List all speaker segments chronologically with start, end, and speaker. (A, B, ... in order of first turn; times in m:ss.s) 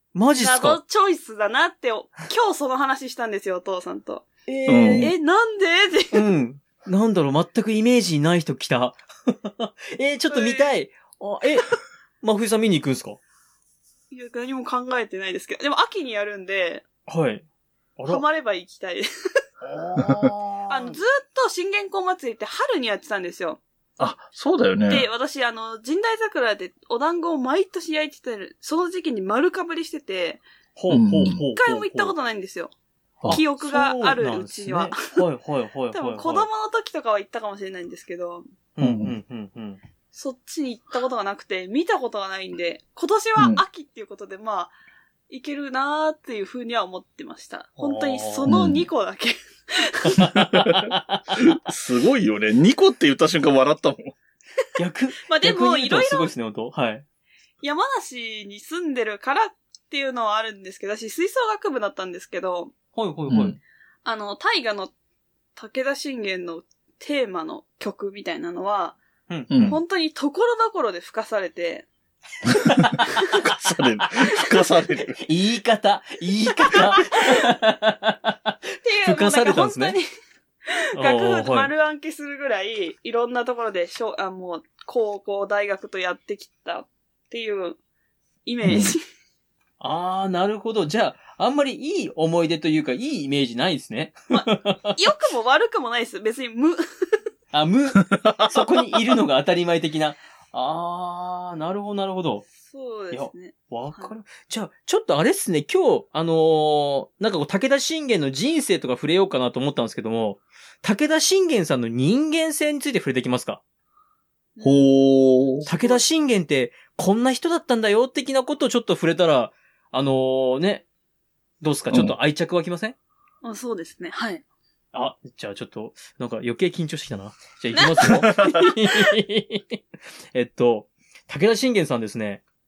0:00.1-0:00.8 A
0:00.4-0:04.3 B
0:04.5-0:05.1 A
0:04.7-0:05.1 C
0:05.0-0:06.2 B
0:06.1-0:13.2 A
0:10.3-0:10.7 B
0:14.1-0:16.8 B
0:17.1-0:17.4 A
0:18.0-0:18.2 A
0:18.0-0:19.4 B
0:19.6-0:21.0 A
0:20.0-0:20.3 C
0:20.7-0:23.6 B
0:24.0-0:25.1 C
0:24.9-0:30.4 B
0:30.8-0:32.1 A
0:30.9-0:31.4 C
0:31.6-0:32.7 B
0:33.3-0:36.5 A
0:33.3-0:35.2 B
0:35.9-0:38.4 B
0:38.8-0:39.8 A
0:38.8-0:39.2 C
0:40.1-0:44.7 B
0:43.4-0:43.6 C
0:45.3-0:50.3 B
0:47.8-0:48.5 A
0:48.5-0:48.8 C
0:50.0-0:51.4 A
0:50.5-0:50.9 C
0:51.4-0:54.1 C
0:54.8-0:57.0 A
0:55.3-0:56.3 B
0:57.6-1:02.7 B
1:02.9-1:03.6 A
1:03.3-1:03.6 C
1:04.0-1:04.9 B
1:05.6-1:09.0 B
1:09.3-1:09.7 A
1:09.5-1:09.8 C
1:09.6-1:11.9 B
1:12.6-1:13.3 A
1:13.2-1:15.2 C
1:15.2-1:20.0 A
1:16.7-1:17.4 B
1:18.8-1:20.0 B
1:20.7-1:27.8 B
1:21.0-1:21.7 A
1:28.4-1:29.0 B
1:28.6-1:29.0 C
1:29.8-1:35.0 A
1:34.3-1:37.2 B
1:37.5-1:42.5 A
1:38.1-1:39.0 C
1:42.7-1:44.1 B
1:43.1-1:53.6 A
1:54.6-1:55.0 B
1:54.6-1:55.6 C
1:55.6-2:00.8 A
1:55.7-1:56.0 B
2:01.6-2:03.0 A
2:03.4-2:04.4 B
2:04.9-2:12.4 A
2:08.1-2:08.6 C